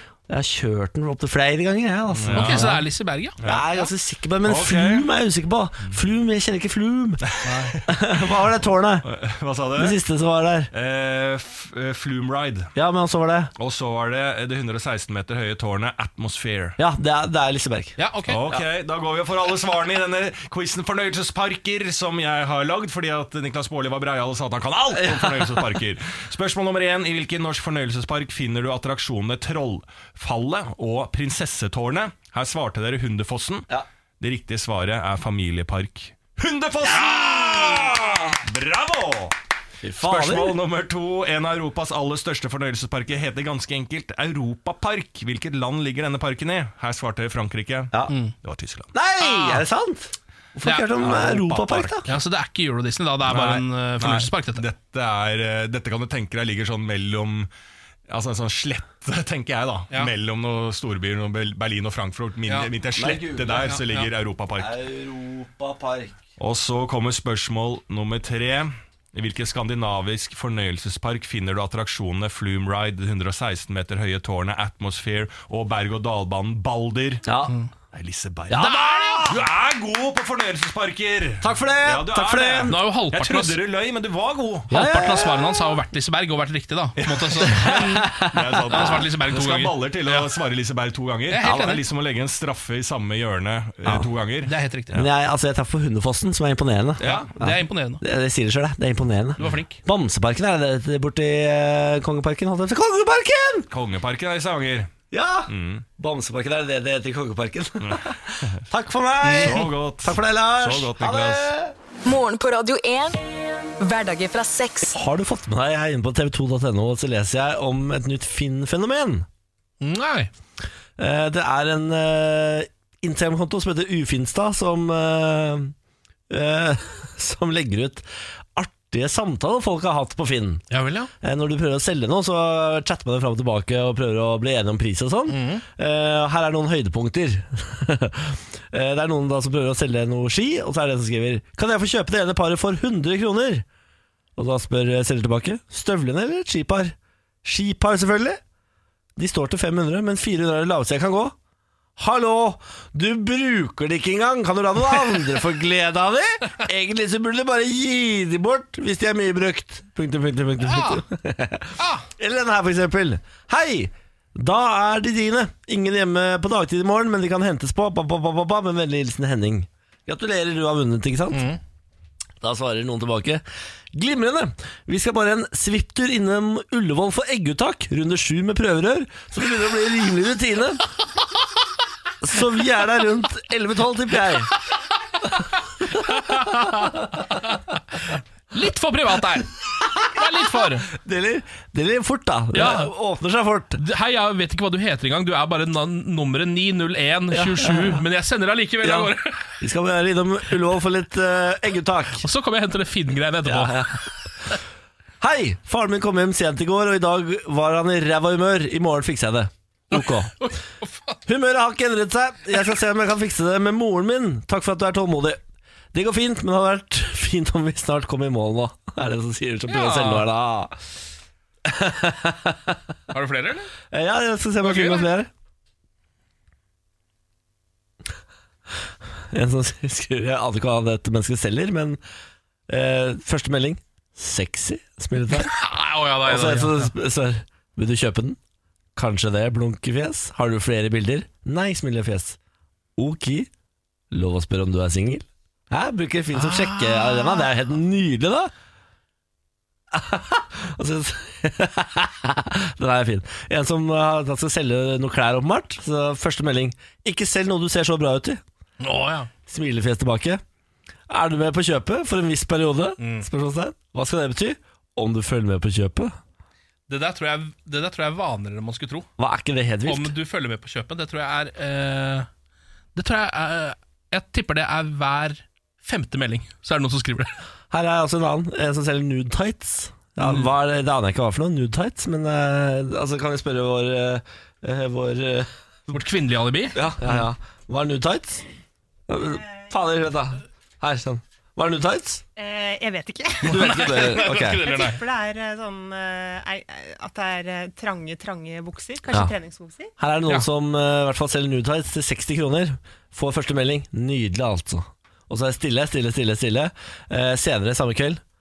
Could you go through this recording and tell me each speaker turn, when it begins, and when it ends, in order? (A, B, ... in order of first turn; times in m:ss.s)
0:00.3-0:02.8 A
0:02.1-0:02.7 B
0:02.3-0:03.4 C
0:03.4-0:03.7 B
0:03.4-0:07.2 A
0:04.4-0:05.0 B
0:07.2-0:08.3 B
0:07.4-0:07.8 C
0:07.9-0:09.1 A
0:09.0-0:10.0 B
0:09.8-0:10.7 A
0:10.7-0:12.7 B
0:12.7-0:13.5 A
0:13.6-0:16.8 B
0:16.8-0:18.0 A
0:18.0-0:18.6 C
0:18.3-0:39.3 B
0:25.1-0:25.5 A
0:36.9-0:38.2 A
0:39.8-0:40.6 A
0:40.0-0:48.9 B
0:48.9-0:52.1 A
0:49.2-0:49.6 C
0:50.6-0:51.4 C
0:51.0-0:52.1 B
0:52.0-0:54.6 C
0:53.3-0:57.5 B
0:58.1-1:04.7 B
1:03.0-1:03.8 A
1:03.6-1:04.1 C
1:04.6-1:06.2 A
1:06.4-1:17.2 B
1:17.2-1:17.6 A
1:17.9-1:24.7 B
1:18.5-1:19.4 A
1:18.5-1:19.3 C
1:21.4-1:22.8 A
1:22.7-1:23.6 C
1:24.7-1:25.8 A
1:24.7-1:28.1 C
1:27.0-1:35.1 B
1:27.4-1:29.0 A
1:28.7-1:30.3 C
1:31.3-1:31.8 C
1:34.4-1:35.0 C
1:34.9-1:43.7 A
1:37.0-1:38.0 C
1:37.0-1:37.3 B
1:39.4-1:39.8 C
1:43.7-1:44.9 B
1:45.1-1:51.7 A
1:45.5-1:45.8 B
1:47.8-1:48.6 B
1:49.2-1:49.7 C
1:49.4-1:51.5 B
1:52.0-1:53.2 D
1:53.8-1:54.9 D
1:54.9-1:59.2 A
1:59.8-2:00.3 C
2:01.0-2:05.7 A
2:06.3-2:10.6 A
2:10.7-2:11.1 C
2:11.2-2:23.6 A
2:15.3-2:15.6 C
2:24.4-2:28.4 A
2:29.2-2:31.3 A
2:32.0-2:51.4 A
2:40.6-2:41.0 C
2:41.8-2:42.1 C
2:51.3-2:51.6 C
2:52.4-3:00.9 A
3:02.2-3:04.5 A
3:06.0-3:10.9 C
3:10.9-3:13.8 A
3:12.5-3:12.9 C
3:13.8-3:19.6 C
3:17.3-3:18.0 A
3:18.8-3:22.2 A
3:22.2-3:24.5 C
3:23.4-3:24.0 A
3:25.2-3:30.5 A
3:29.9-3:31.2 C
3:31.3-3:35.4 A
3:35.9-3:40.7 A
3:39.7-3:40.3 C
3:41.6-3:42.8 A
3:43.1-3:43.7 C
3:43.9-3:45.3 A
3:44.6-3:45.1 C
3:49.3-3:52.0 A
3:52.7-3:55.5 A
3:55.3-3:56.9 C
3:56.2-3:58.4 A
3:59.0-4:02.4 A
4:03.0-4:03.5 A
4:04.1-4:08.5 A
4:06.3-4:07.5 C
4:09.9-4:18.4 A
4:18.8-4:19.3 C
4:19.5-4:20.4 A
4:21.1-4:26.1 A
4:23.0-4:23.2 C
4:26.9-4:29.1 C
4:29.2-4:30.1 A
4:29.8-4:32.3 C
4:32.9-4:37.3 C
4:37.7-4:45.5 A
4:40.2-4:40.5 C
4:45.9-4:47.2 C
4:46.7-4:48.4 A
4:49.1-4:52.2 A
4:49.2-4:49.7 E
4:52.4-4:59.9 E
4:53.4-4:55.0 C
4:53.4-4:54.7 A
5:00.0-5:08.2 A